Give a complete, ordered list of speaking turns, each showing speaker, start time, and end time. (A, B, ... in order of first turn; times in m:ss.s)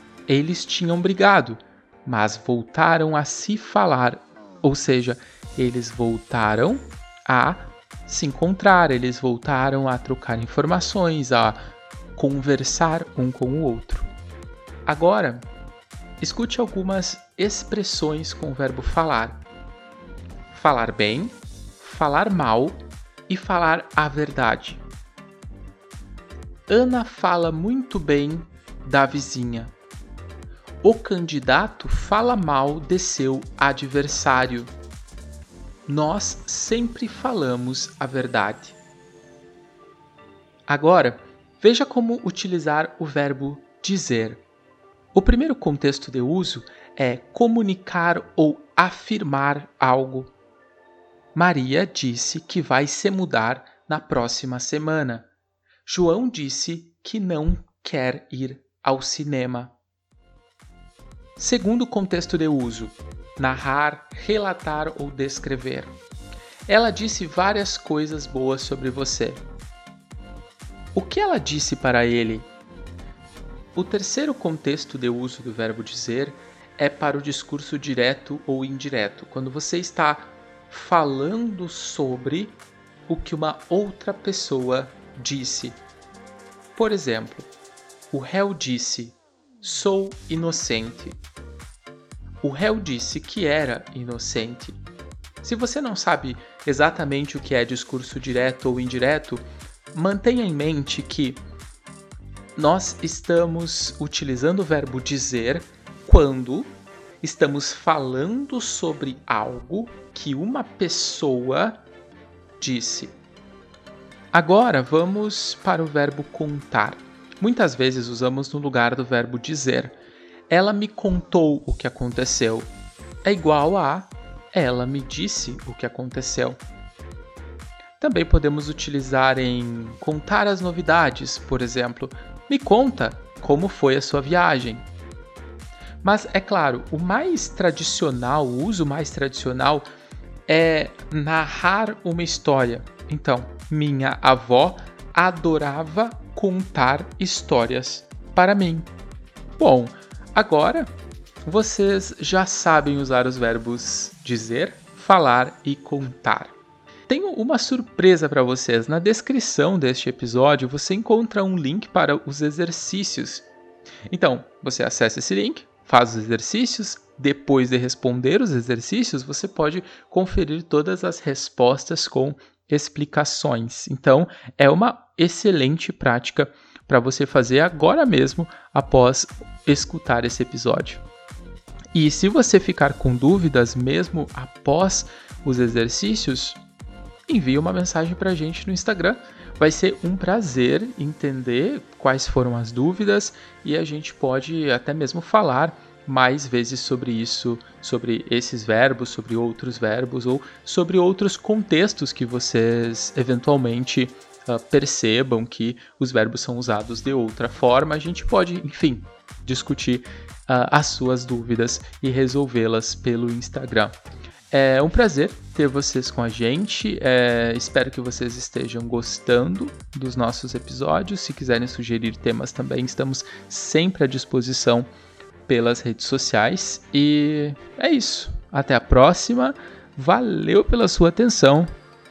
0:00.3-0:11.6 A
0:12.2-0:14.1 A
0:14.9-0:15.5 A
0:16.2-0:19.4 A
0:20.5-0:24.8 A
0:26.7-0:29.7 A
0:30.8-0:34.7 A
0:35.9-0:38.8 A
0:40.7-0:44.4 A
0:45.1-0:50.3 A
0:51.4-0:55.3 A
0:55.8-0:59.7 A
1:01.4-1:06.0 A
1:06.7-1:09.4 A
1:10.9-1:12.5 A
1:13.8-1:25.8 A
1:26.8-1:27.5 A
1:28.1-1:31.2 A
1:32.4-1:34.8 A
1:35.4-1:41.4 A
1:42.6-1:51.8 A
1:52.6-1:53.2 A
1:54.3-2:00.0 A
2:00.5-2:02.7 A
2:03.2-2:06.6 A
2:08.0-2:14.9 A
2:16.0-2:19.9 A
2:20.5-2:28.9 A
2:29.6-2:30.9 A
2:31.4-2:36.6 A
2:37.1-2:43.5 A
2:44.1-3:01.0 A
3:01.9-3:06.6 A
3:07.3-3:34.0 A
3:34.5-3:44.9 A
3:45.5-3:51.7 A